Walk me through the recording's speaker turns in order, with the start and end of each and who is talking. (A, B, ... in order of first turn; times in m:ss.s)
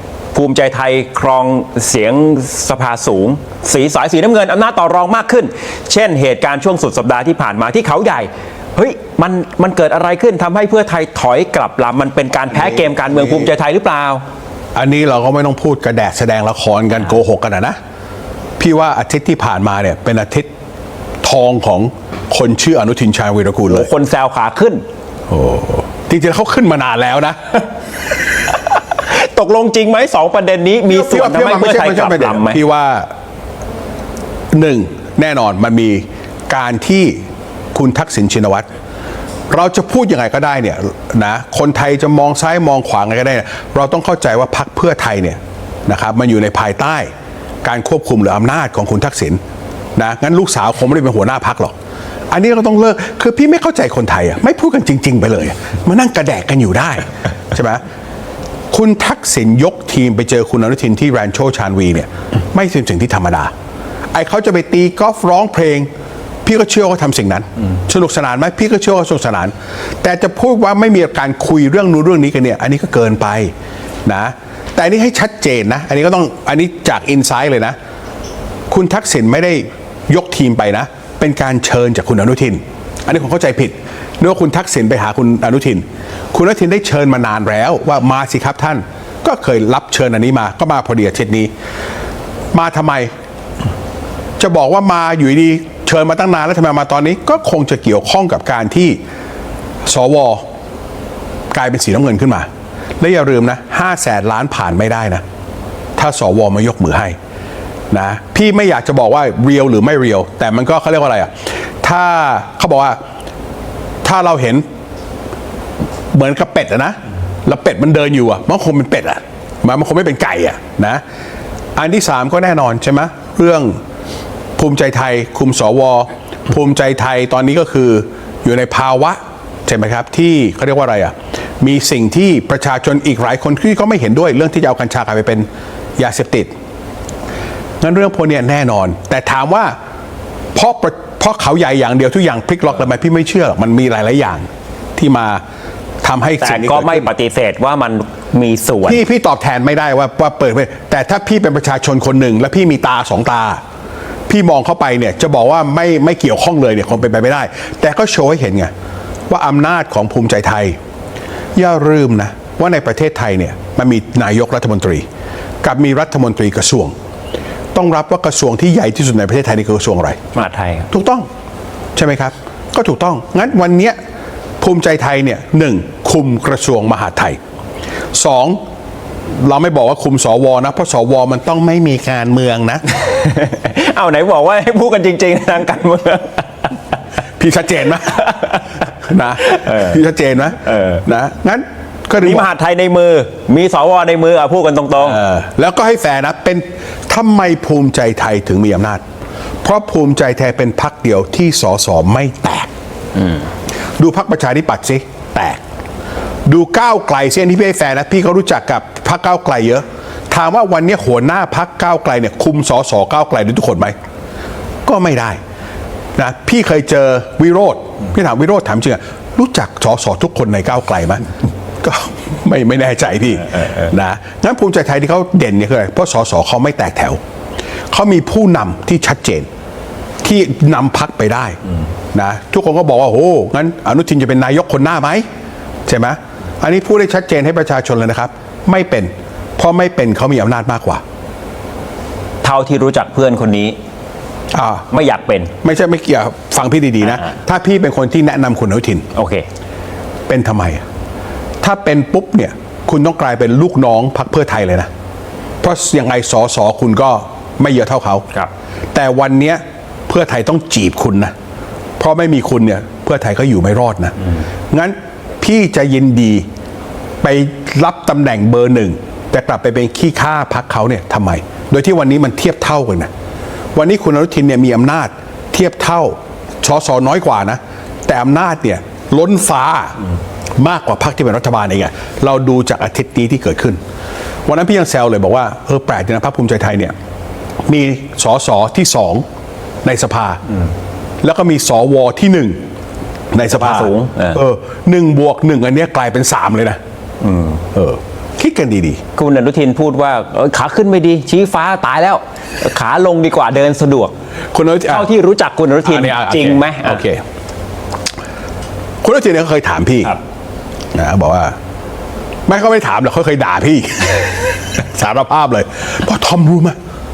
0:00.3-0:14.2 A
0:12.5-0:13.5 B
0:14.7-0:17.8 B
0:18.6-0:20.5 B
0:21.2-0:23.9 B
0:23.7-0:24.8 A
0:25.3-0:27.7 B
0:28.9-0:32.6 A
0:30.9-0:33.1 B
0:34.5-0:37.2 B
0:37.7-0:38.6 B
0:39.5-0:47.1 B
0:47.6-0:49.4 B
0:50.0-0:51.7 B
0:52.3-0:57.8 B
0:58.7-1:03.5 B
1:04.1-1:05.9 B
1:06.4-1:13.5 B
1:14.0-1:17.8 B
1:18.7-1:31.5 B
1:32.5-1:33.1 B
1:34.4-1:39.0 B
1:39.8-1:40.4 B
1:41.5-1:42.5 B
1:43.0-1:45.2 B
1:46.0-1:47.2 B
1:47.9-1:53.0 B
1:54.0-1:54.6 B
1:56.1-2:01.0 B
2:01.8-2:03.8 B
2:04.6-2:15.4 B
2:16.0-2:16.5 B
2:17.8-2:19.7 B
2:20.5-2:25.4 B
2:26.0-2:27.1 B
2:26.4-2:29.0 A
2:28.8-2:33.6 B
2:34.3-2:38.7 B
2:39.3-2:40.8 B
2:41.6-2:45.0 B
2:45.6-2:46.9 B
2:47.7-2:50.2 B
2:50.3-2:50.9 A
2:50.9-2:51.3 B
2:51.9-2:54.0 B
2:54.6-2:57.4 B
2:58.1-2:58.6 B
2:59.3-3:02.8 B
3:02.9-3:06.7 A
3:07.4-3:12.5 B
3:08.2-3:08.8 A
3:09.4-3:10.0 A
3:10.6-3:11.0 A
3:12.2-3:15.2 A
3:15.0-3:19.0 B
3:19.6-3:22.7 B
3:24.0-3:25.6 B
3:26.4-3:33.9 B
3:34.8-3:35.4 B
3:36.2-3:41.2 B
3:41.8-3:47.2 B
3:47.9-3:49.5 B
3:50.2-3:51.6 B
3:52.1-3:55.2 B
3:55.8-4:01.0 B
4:02.4-4:03.8 A
4:04.5-4:04.9 B
4:04.9-4:05.5 A
4:05.6-4:09.0 B
4:09.1-4:09.4 A
4:10.3-4:10.8 B
4:11.6-4:14.9 B
4:15.6-4:18.2 B
4:18.9-4:21.3 B
4:22.0-4:24.2 B
4:24.7-4:26.4 B
4:27.2-4:33.1 B
4:33.7-4:40.0 B
4:40.6-4:43.8 B
4:44.4-4:46.9 B
4:47.7-4:49.2 B
4:49.8-4:50.4 B
4:51.2-4:52.6 B
4:53.3-4:56.8 B
4:53.5-4:54.4 A
4:57.2-4:57.6 A
4:57.7-4:59.0 B
4:59.2-5:04.1 A
5:04.5-5:05.1 B
5:04.9-5:07.0 A
5:05.8-5:07.2 B
5:09.0-5:10.2 B
5:10.9-5:11.5 B
5:12.5-5:16.8 B